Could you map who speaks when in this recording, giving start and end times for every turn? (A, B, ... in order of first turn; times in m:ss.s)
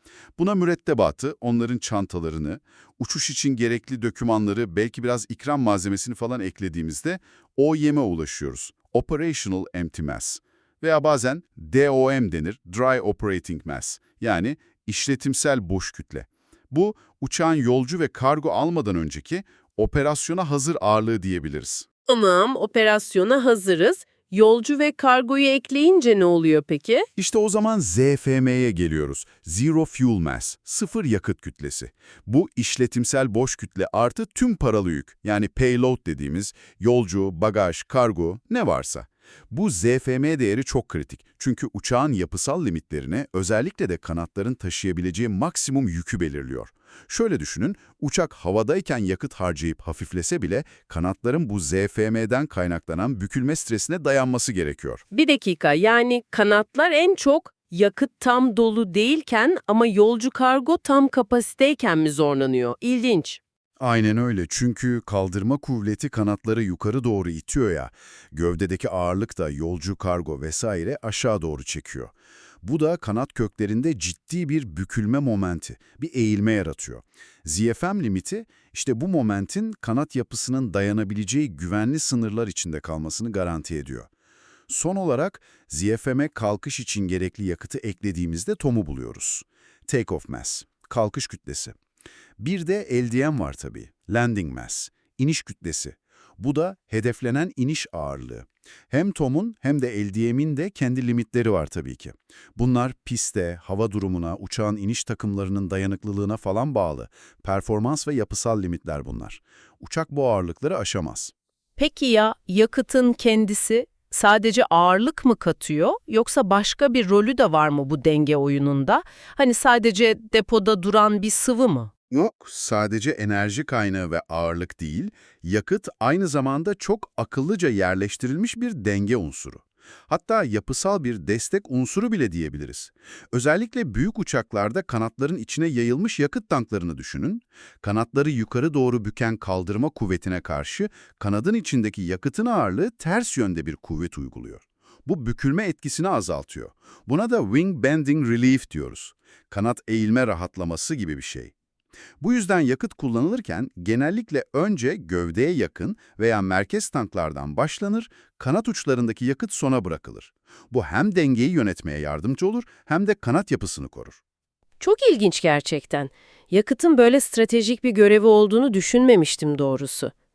0:00.4-0:21.8 A
0:22.1-0:27.0 B
0:27.2-0:55.0 A
0:55.1-1:03.4 B
1:03.8-1:24.1 A
1:24.7-1:31.7 A
1:32.4-1:51.3 A
1:51.8-2:01.9 B
2:02.1-2:31.5 A
2:32.2-2:44.2 A
2:44.8-2:50.1 B